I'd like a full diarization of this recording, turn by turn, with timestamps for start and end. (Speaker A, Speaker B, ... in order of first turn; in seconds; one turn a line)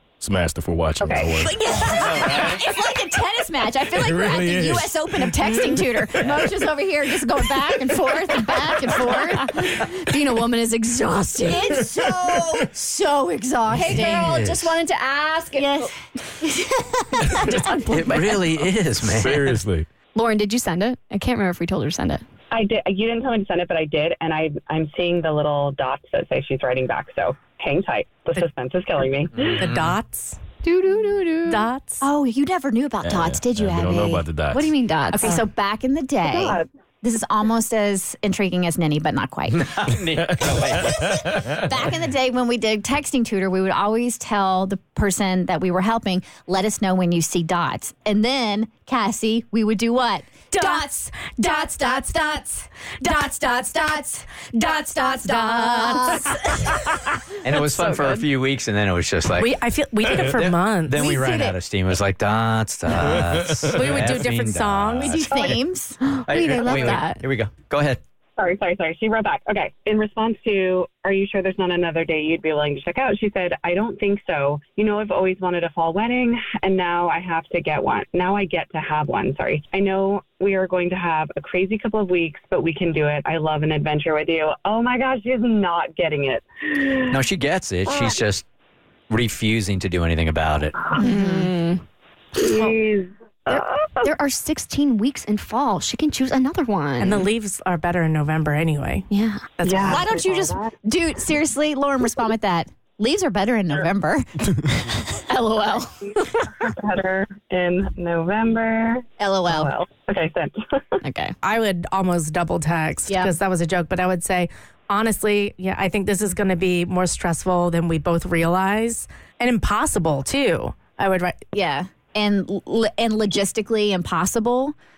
Speaker A: 0.2-1.6
Speaker B: 1.0-1.4
Speaker C: 1.4-2.2
Speaker D: 1.8-9.7
Speaker A: 2.2-2.5
Speaker A: 4.0-4.9
Speaker E: 5.5-5.8
Speaker C: 9.2-11.7
Speaker D: 11.4-14.4
Speaker C: 13.7-15.9
Speaker F: 13.8-14.8
Speaker D: 15.6-17.7
Speaker C: 17.3-18.5
Speaker F: 17.9-19.6
Speaker A: 19.0-19.9
Speaker C: 20.1-22.2
Speaker B: 22.5-29.5
Speaker F: 29.4-29.9
Speaker E: 29.6-30.4
Speaker C: 30.7-31.4
Speaker E: 31.5-32.0
Speaker D: 32.0-34.3
Speaker A: 33.0-34.7
Speaker C: 34.5-35.4
Speaker D: 35.1-39.7
Speaker B: 36.3-36.6
Speaker F: 39.5-41.2
Speaker D: 40.9-57.1
Speaker E: 55.2-56.2
Speaker F: 57.4-59.5
Speaker E: 59.4-61.1
Speaker F: 60.3-65.6
Speaker D: 61.0-61.5
Speaker E: 63.7-65.2
Speaker D: 65.0-67.2
Speaker C: 66.0-67.2
Speaker F: 66.3-68.0
Speaker B: 68.4-87.2
Speaker F: 87.1-88.4
Speaker F: 89.1-90.8
Speaker C: 91.0-91.8
Speaker D: 91.0-91.5
Speaker B: 92.4-94.1
Speaker C: 93.5-97.3
Speaker E: 97.0-99.1
Speaker C: 99.1-99.5
Speaker E: 99.6-100.1
Speaker B: 99.6-100.6
Speaker D: 99.9-105.0
Speaker C: 105.3-106.5
Speaker B: 106.6-111.0
Speaker D: 109.2-109.7
Speaker C: 111.0-111.3
Speaker E: 111.4-121.4
Speaker D: 113.1-113.3
Speaker D: 121.5-124.8